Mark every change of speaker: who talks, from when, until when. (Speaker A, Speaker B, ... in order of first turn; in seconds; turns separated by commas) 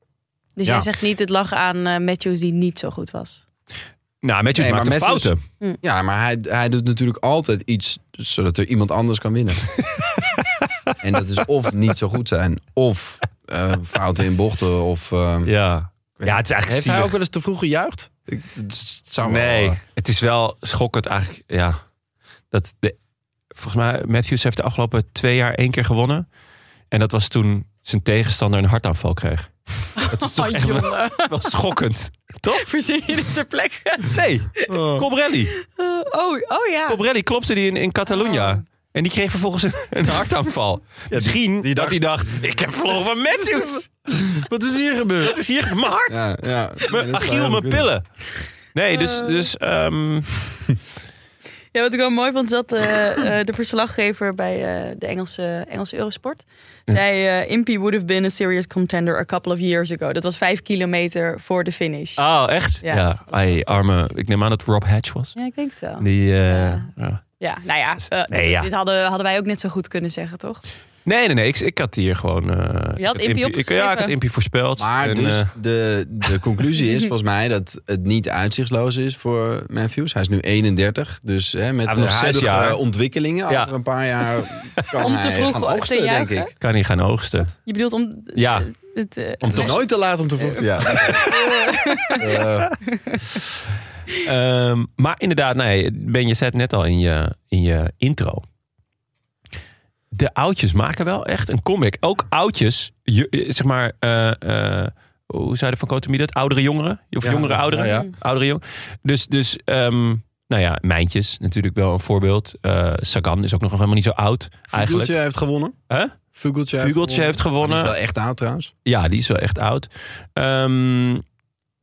Speaker A: 0.6-3.4, Speaker B: 4.2-5.4, Speaker C: 4.6-9.7, Speaker B: 10.0-10.5, Speaker C: 11.0-15.5, Speaker B: 15.5-17.1, Speaker C: 16.2-19.8, Speaker B: 19.2-21.8, Speaker B: 22.5-23.0, Speaker B: 23.6-26.3, Speaker B: 26.9-29.5, Speaker A: 30.0-31.3, Speaker B: 30.1-32.7, Speaker A: 32.5-34.2, Speaker B: 34.1-35.5, Speaker C: 34.7-35.1, Speaker A: 35.6-37.0, Speaker B: 36.9-44.3, Speaker A: 38.1-38.6, Speaker C: 41.1-42.0, Speaker C: 43.6-45.4, Speaker B: 45.2-46.3, Speaker C: 46.1-47.9, Speaker B: 46.9-48.0, Speaker B: 48.7-50.3, Speaker A: 48.9-49.5, Speaker A: 51.7-62.2, Speaker B: 62.2-65.4, Speaker A: 62.8-63.4, Speaker A: 65.4-66.9, Speaker B: 66.0-67.2, Speaker A: 67.4-70.6, Speaker B: 68.3-68.7, Speaker B: 71.1-75.5, Speaker A: 73.0-74.1, Speaker C: 74.8-86.5, Speaker B: 81.8-82.8, Speaker B: 84.8-85.1, Speaker A: 85.0-86.5, Speaker B: 86.6-87.6, Speaker A: 87.7-89.8, Speaker B: 88.3-88.7, Speaker B: 89.4-89.8, Speaker C: 89.5-91.3, Speaker A: 90.4-92.2, Speaker B: 90.9-91.5, Speaker C: 92.2-92.8, Speaker A: 92.9-93.2, Speaker B: 94.2-98.4, Speaker B: 100.1-115.1, Speaker C: 107.2-108.1, Speaker A: 107.8-108.1, Speaker C: 114.7-115.8, Speaker B: 115.9-116.2, Speaker C: 116.3-118.7, Speaker B: 116.7-117.9, Speaker B: 118.9-121.2